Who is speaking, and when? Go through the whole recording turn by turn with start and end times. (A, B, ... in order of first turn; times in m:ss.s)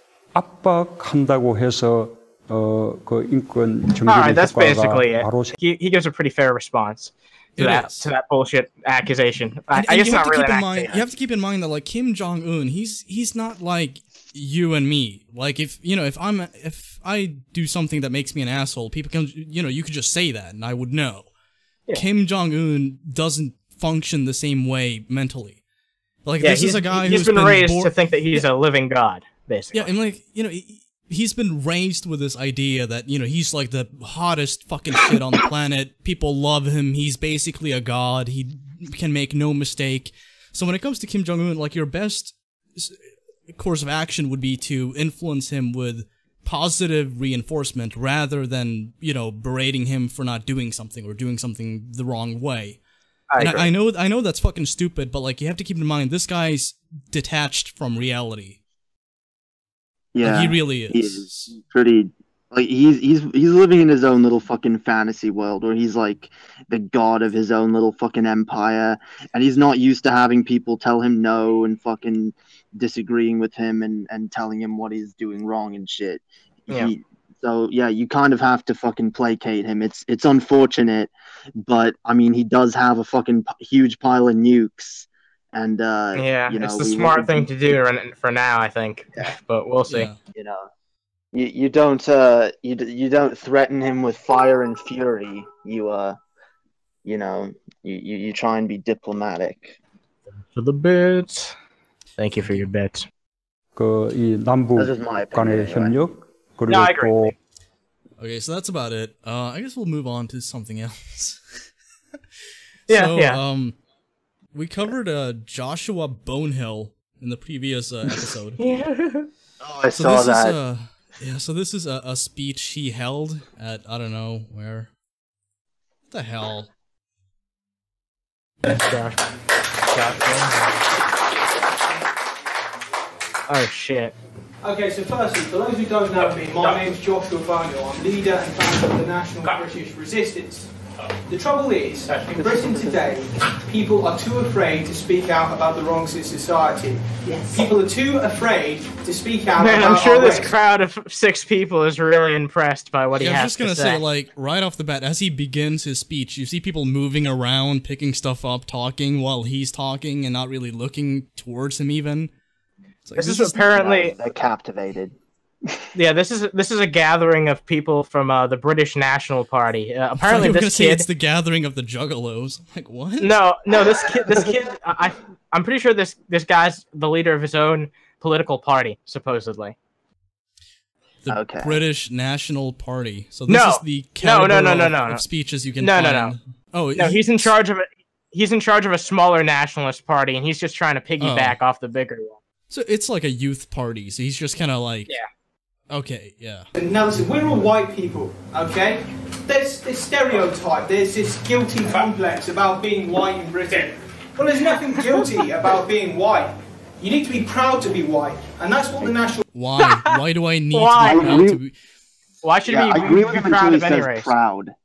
0:00.3-0:05.6 A
0:04.1-0:11.0 B
0:07.6-0:08.1 C
0:09.7-0:21.3 C
0:21.9-0:25.6 C
0:26.2-0:28.4 C
0:26.4-0:29.9 B
0:29.7-0:43.0 C
0:43.5-0:52.8 C
0:53.3-0:53.7 B
0:53.4-0:58.6 C
1:00.1-1:27.5 D
1:00.2-1:01.5 C
1:26.2-1:30.1 B
1:29.9-1:30.2 C
1:30.3-1:30.7 D
1:31.3-1:36.2 D
1:37.0-1:39.8 D
1:40.5-1:41.5 B
1:42.2-1:43.0 B
1:42.4-1:42.7 C
1:43.8-1:47.3 A
1:44.8-1:45.9 D
1:46.7-1:47.3 B
1:48.2-1:51.7 C
1:52.9-1:53.8 C
1:52.9-1:53.4 B
1:54.5-1:58.6 C
1:58.6-1:59.3 B
1:59.6-2:00.6 D
1:59.9-2:04.9 C
2:06.1-2:06.7 C
2:08.7-2:09.2 B
2:09.9-2:10.8 B
2:13.5-2:14.1 B
2:14.6-2:20.7 E
2:21.3-2:30.5 E
2:29.6-2:34.0 B
2:33.2-2:42.3 C
2:43.0-2:43.6 C
2:43.2-2:44.1 B
2:43.7-2:45.1 D
2:45.9-2:51.0 B
2:50.2-2:53.4 C
2:53.2-2:59.8 B
2:53.8-2:54.5 D
3:01.2-3:07.5 C
3:01.3-3:01.8 D
3:03.5-3:05.2 B
3:05.8-3:06.3 B
3:07.0-3:12.4 B
3:11.2-3:11.6 C
3:12.7-3:15.1 C
3:15.9-3:16.7 C
3:16.7-3:29.4 E
3:29.5-3:31.7 C
3:29.8-3:30.1 B
3:30.7-3:31.4 B
3:31.0-3:31.6 D
3:32.4-3:34.3 B
3:32.7-3:34.7 D